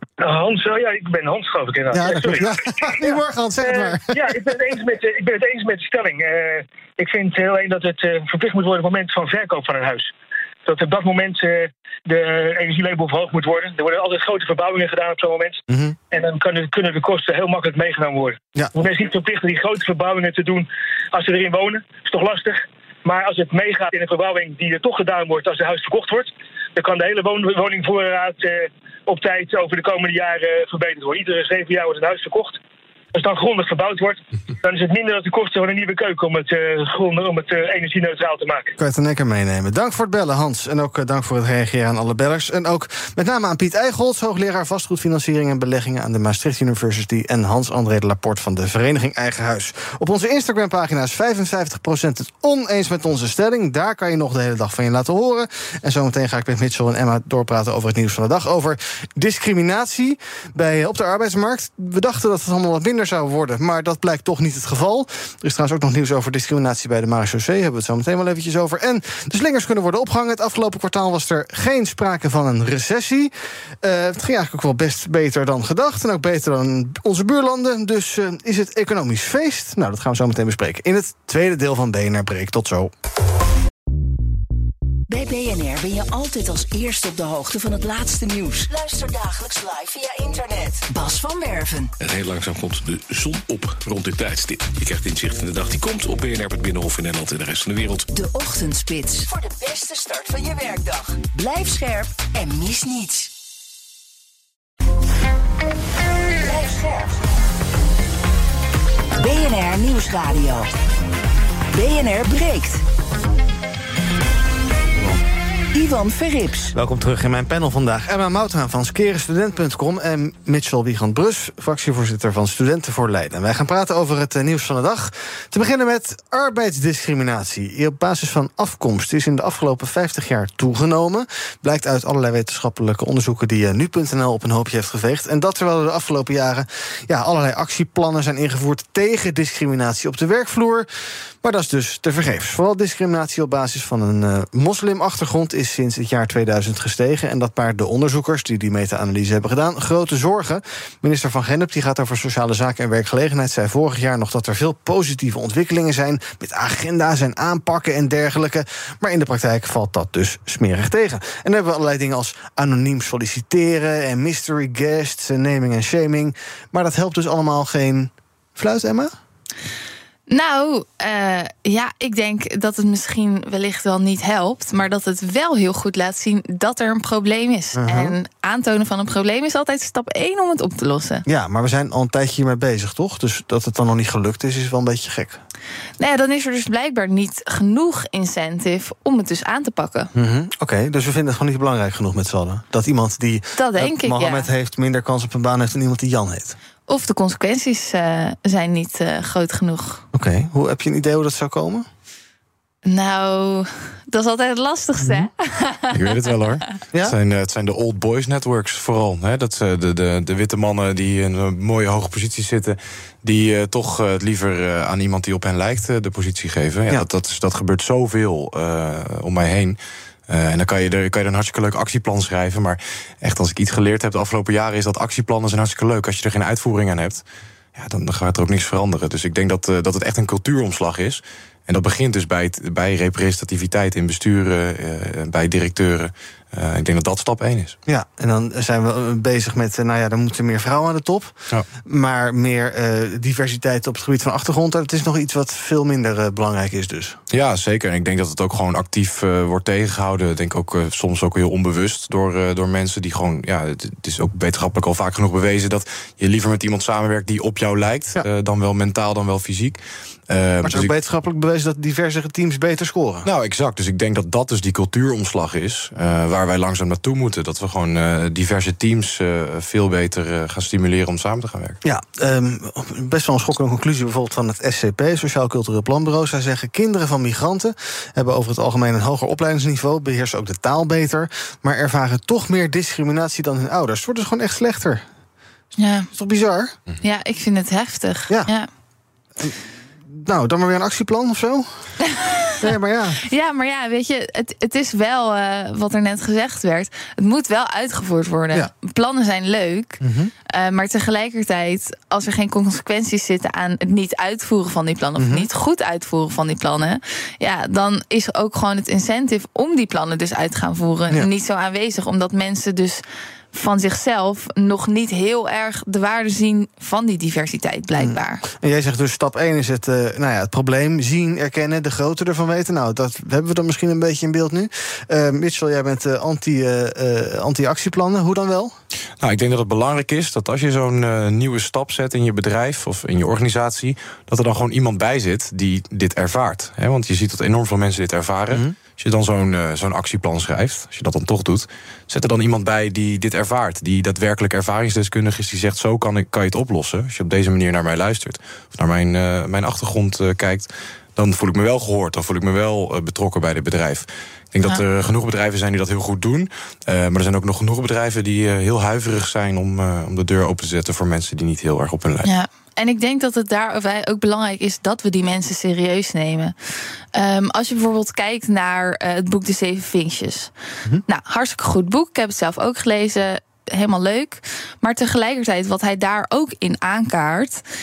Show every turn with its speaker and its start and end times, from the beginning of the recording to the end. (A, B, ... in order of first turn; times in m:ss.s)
0:00.2-0:02.5 A
0:01.9-0:04.4 B
0:03.6-0:10.1 A
0:10.6-0:32.6 A
0:15.7-0:16.0 B
0:33.1-0:38.7 A
0:38.8-1:22.9 B
1:25.1-1:31.9 C
1:32.0-1:38.1 D
1:38.1-1:43.3 C
1:46.4-1:47.1 C
1:49.2-1:50.7 C
1:51.7-1:52.8 C
1:55.7-1:56.7 C
1:56.7-2:20.9 B
2:21.4-2:49.1 B
2:50.3-3:01.2 E
2:57.8-2:58.2 B
3:01.3-3:05.4 B
3:06.0-3:10.1 E
3:10.1-3:16.6 B
3:13.6-3:14.5 E
3:16.9-3:20.0 E
3:20.1-3:21.9 B
3:22.8-3:26.1 E
3:25.0-3:25.3 B
3:25.9-3:39.8 F
3:40.3-3:47.2 F
3:47.8-3:57.8 F
3:57.9-4:07.2 B
4:07.3-4:20.9 F
4:20.6-4:23.2 B
4:23.2-4:31.8 F
4:31.8-4:45.0 B
4:45.8-4:46.1 E
4:46.1-4:46.7 B
4:47.0-4:48.7 E
4:50.1-4:51.8 B
4:52.0-4:52.5 E
4:52.6-4:53.2 B
4:53.2-5:13.0 E
5:00.0-5:00.3 B
5:05.2-5:05.5 B
5:13.5-5:18.4 E
5:17.9-5:28.7 B
5:29.2-6:02.3 F
6:02.2-6:06.5 E
6:07.1-6:10.5 E
6:11.1-6:17.6 E